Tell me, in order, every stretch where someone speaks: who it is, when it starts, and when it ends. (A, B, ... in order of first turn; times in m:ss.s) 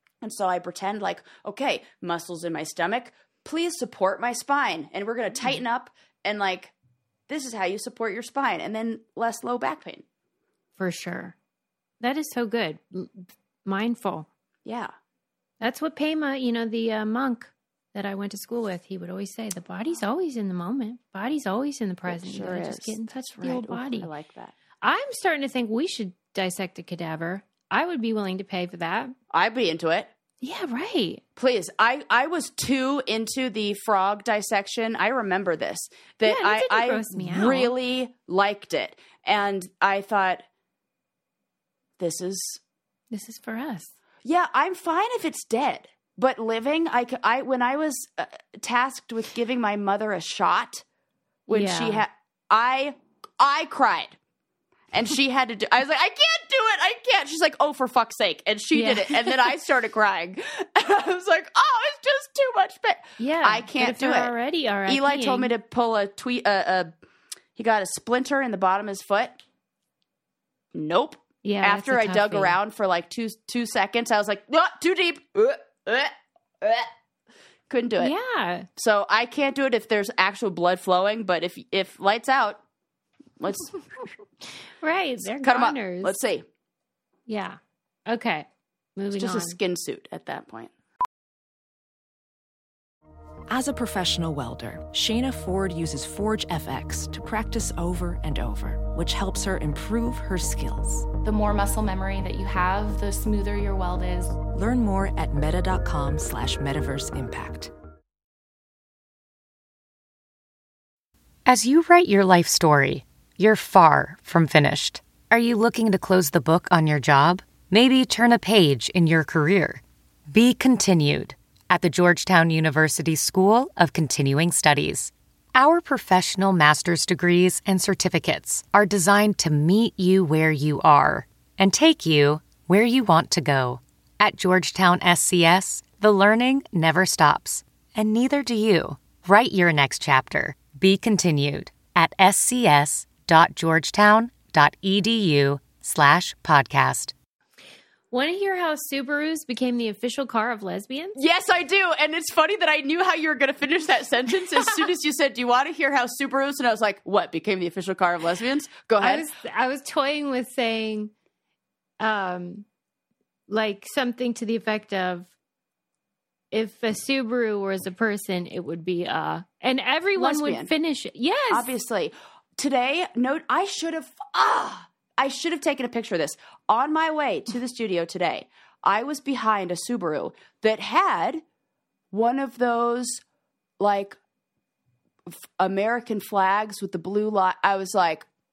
0:00.2-0:06.7 A
0:07.3-0:10.0 A
0:10.8-0:11.4 B
0:12.0-0:14.3 B
0:14.6-0:14.9 A
0:15.6-0:24.1 B
0:22.0-0:24.5 A
0:24.8-0:29.1 B
0:29.3-0:30.1 A
0:30.4-0:31.2 B
0:31.4-0:40.4 A
0:36.2-0:37.7 B
0:42.0-0:42.6 A
0:43.1-0:43.9 B
0:44.2-0:50.8 A
0:51.5-0:52.0 B
0:51.5-0:54.2 A
0:54.9-1:04.3 A
0:58.7-0:59.5 B
1:03.2-1:05.5 B
1:04.8-1:06.9 A
1:07.6-1:09.4 A
1:10.7-1:16.9 A
1:11.4-1:12.6 B
1:17.7-1:18.1 A
1:18.0-1:18.7 B
1:18.8-1:22.6 A
1:23.4-1:23.7 A
1:24.8-1:26.2 B
1:25.4-1:26.5 A
1:27.3-1:29.6 B
1:29.1-1:30.7 A
1:33.5-1:41.1 C
1:41.2-1:44.4 D
1:44.5-1:47.7 C
1:51.4-2:27.1 E
2:28.1-2:31.2 B
2:31.2-2:39.3 A
2:39.0-2:41.1 B
2:42.0-2:42.6 B
2:43.5-2:45.3 B
2:46.5-2:51.7 B
2:50.2-2:50.7 A
2:51.5-3:01.4 A
3:02.1-3:03.2 A
3:03.8-3:04.2 A
3:05.3-3:08.3 A